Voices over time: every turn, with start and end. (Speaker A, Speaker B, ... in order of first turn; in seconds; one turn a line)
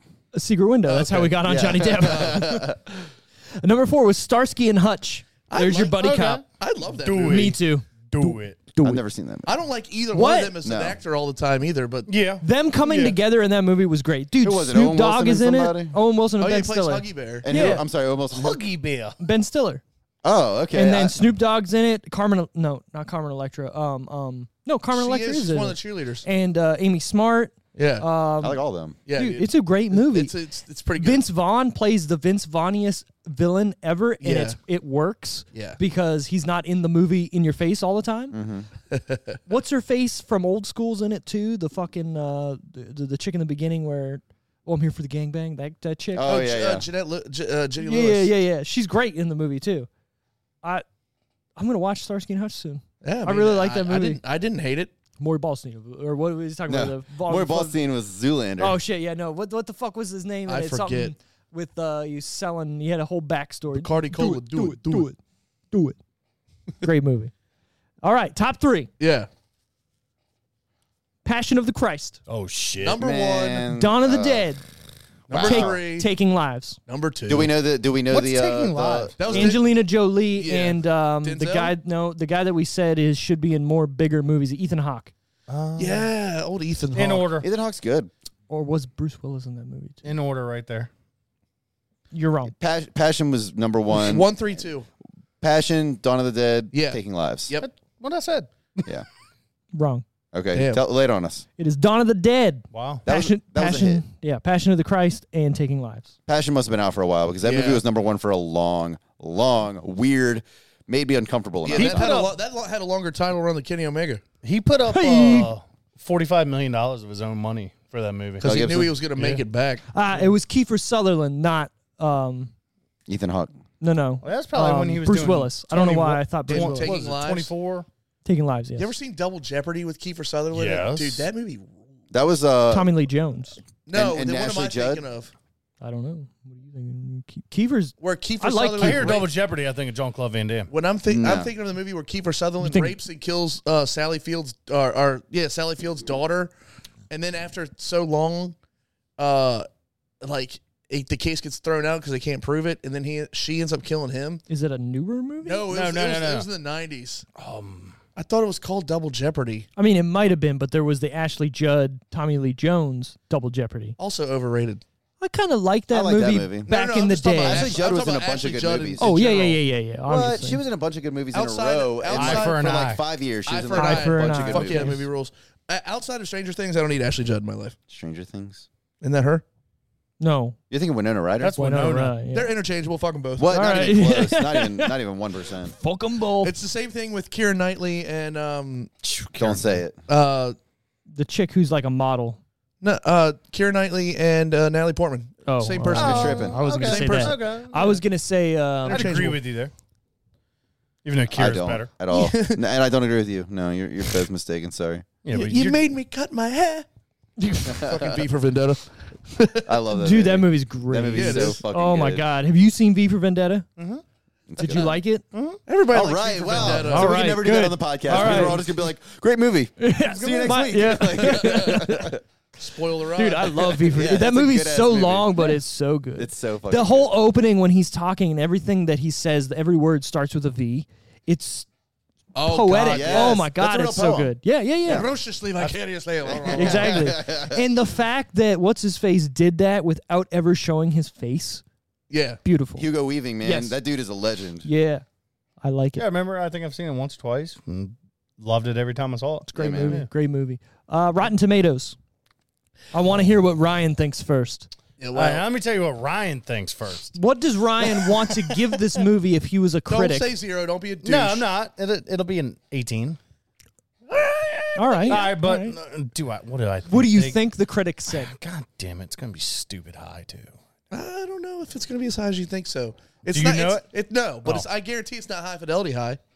Speaker A: 0.3-2.7
Speaker B: 0.9-2.4
Speaker C: 1.4-3.0
Speaker A: 3.6-6.4
Speaker B: 5.5-6.0
Speaker D: 6.0-6.4
Speaker B: 6.6-7.6
Speaker D: 7.0-8.6
Speaker A: 7.3-9.0
Speaker C: 8.8-9.5
Speaker B: 9.4-12.1
Speaker A: 10.1-10.6
Speaker C: 10.6-11.0
Speaker D: 12.1-13.2
Speaker A: 12.4-17.8
Speaker C: 14.4-15.9
Speaker B: 16.4-17.7
Speaker C: 17.4-18.6
Speaker D: 18.3-19.2
Speaker A: 19.2-19.8
Speaker C: 20.2-21.3
Speaker A: 20.7-28.6
Speaker B: 24.9-26.3
Speaker B: 27.8-28.1
Speaker C: 28.4-29.0
Speaker B: 29.1-31.2
Speaker A: 29.1-30.3
Speaker A: 31.0-38.4
Speaker B: 34.2-34.6
Speaker C: 38.3-38.7
Speaker B: 38.9-39.4
Speaker A: 39.5-46.3
Speaker C: 46.1-46.9
Speaker B: 46.2-48.3
Speaker A: 47.8-49.9
Speaker A: 51.6-54.2
Speaker B: 53.0-54.9
Speaker A: 55.2-57.8
Speaker C: 56.7-58.8
Speaker A: 58.6-65.2
Speaker B: 60.5-61.1
Speaker B: 63.7-65.1
Speaker A: 65.7-66.0
Speaker A: 66.8-67.3
Speaker A: 68.0-68.9
Speaker B: 69.0-69.3
Speaker A: 71.2-72.2
Speaker D: 72.3-73.0
Speaker B: 72.8-73.7
Speaker C: 73.0-74.5
Speaker A: 73.7-74.6
Speaker C: 75.3-75.8
Speaker B: 75.3-76.1
Speaker A: 75.4-76.8
Speaker B: 76.9-77.5
Speaker C: 77.3-79.5
Speaker D: 78.1-79.2
Speaker B: 79.2-79.8
Speaker A: 79.3-85.1
Speaker B: 80.3-81.7
Speaker D: 85.5-86.1
Speaker B: 85.8-87.3
Speaker D: 87.0-87.5
Speaker C: 87.4-88.1
Speaker A: 88.5-90.0
Speaker D: 90.0-90.9
Speaker A: 92.1-92.5
Speaker C: 92.6-94.3
Speaker B: 93.9-94.9
Speaker C: 95.4-97.5
Speaker B: 96.7-97.7
Speaker D: 97.6-98.9
Speaker A: 99.7-100.0
Speaker C: 100.3-101.4
Speaker B: 100.5-100.8
Speaker A: 101.6-106.1
Speaker D: 102.7-103.0
Speaker C: 103.0-104.0
Speaker C: 106.3-112.2
Speaker B: 107.4-107.8
Speaker B: 111.7-114.2
Speaker D: 111.7-112.3
Speaker D: 114.4-118.4
Speaker A: 114.9-115.5
Speaker B: 118.4-119.8
Speaker C: 118.4-119.0
Speaker D: 119.2-119.4
Speaker A: 119.9-122.5
Speaker C: 123.1-123.5
Speaker A: 123.8-127.0
Speaker D: 124.2-127.9
Speaker B: 126.5-127.5
Speaker A: 128.2-128.9
Speaker B: 128.8-131.7
Speaker D: 130.5-131.3
Speaker C: 132.1-132.9
Speaker A: 132.7-133.6
Speaker B: 133.9-135.3
Speaker C: 133.9-135.0
Speaker A: 135.8-139.2
Speaker B: 138.0-139.3
Speaker D: 138.8-140.7
Speaker B: 140.7-146.5
Speaker C: 141.1-141.5
Speaker A: 142.6-143.0
Speaker B: 147.1-148.6
Speaker B: 149.2-149.7
Speaker B: 150.2-154.4
Speaker A: 154.5-155.7
Speaker B: 155.4-157.3
Speaker D: 155.7-156.5
Speaker D: 157.4-158.0
Speaker B: 158.2-159.7
Speaker A: 159.8-163.9
Speaker B: 164.0-164.8
Speaker A: 165.2-167.7
Speaker C: 165.9-166.7
Speaker B: 166.7-169.6
Speaker C: 167.4-169.1
Speaker A: 169.0-170.6
Speaker C: 170.1-175.0
Speaker B: 171.3-172.9
Speaker D: 172.1-173.0
Speaker B: 173.5-177.8
Speaker A: 173.7-175.0
Speaker C: 177.9-178.7
Speaker B: 179.0-179.4
Speaker A: 180.2-180.6
Speaker C: 180.7-181.6
Speaker D: 181.4-182.2
Speaker A: 181.5-182.5
Speaker B: 182.3-183.9
Speaker C: 183.4-185.8
Speaker A: 183.5-184.9
Speaker A: 185.6-186.5
Speaker B: 186.4-188.9
Speaker D: 189.0-189.8
Speaker C: 189.4-190.0
Speaker B: 190.1-190.6
Speaker A: 191.1-192.4
Speaker B: 192.8-197.4
Speaker A: 195.4-199.2
Speaker D: 195.9-198.0
Speaker C: 195.9-196.6
Speaker B: 198.8-199.4
Speaker D: 198.9-199.7
Speaker D: 201.0-201.9
Speaker C: 201.3-205.1
Speaker B: 202.1-202.6
Speaker D: 205.2-205.8
Speaker B: 205.3-206.9
Speaker A: 207.4-207.8
Speaker B: 207.6-209.8
Speaker C: 207.7-208.2
Speaker C: 209.6-212.3
Speaker A: 209.9-213.7
Speaker B: 211.1-211.6
Speaker D: 213.8-214.0
Speaker C: 214.5-215.0
Speaker A: 214.6-215.2
Speaker D: 215.3-215.6
Speaker B: 215.7-217.3
Speaker C: 215.9-222.2
Speaker A: 216.6-218.6
Speaker B: 218.2-218.5
Speaker A: 219.8-222.2
Speaker D: 220.2-220.7
Speaker B: 221.2-221.8
Speaker B: 222.6-223.8
Speaker A: 223.2-231.7
Speaker C: 223.8-225.6
Speaker C: 226.2-227.1
Speaker B: 232.3-233.4
Speaker A: 232.4-235.1
Speaker C: 232.8-235.1
Speaker B: 234.9-237.1
Speaker C: 236.3-237.7
Speaker A: 236.6-241.6
Speaker B: 242.1-242.4
Speaker A: 242.4-242.9
Speaker C: 242.8-244.7
Speaker A: 243.4-243.8
Speaker A: 244.6-245.0
Speaker A: 245.6-246.1
Speaker D: 245.9-250.1
Speaker C: 249.5-250.0
Speaker A: 249.6-251.9
Speaker A: 252.9-254.7
Speaker B: 255.0-255.4
Speaker D: 255.1-257.2
Speaker A: 257.2-260.3
Speaker B: 259.9-261.5
Speaker D: 261.0-263.2
Speaker D: 264.1-267.4
Speaker A: 264.8-265.8
Speaker A: 266.9-268.3
Speaker D: 268.1-270.5
Speaker B: 270.9-276.2
Speaker D: 273.3-273.9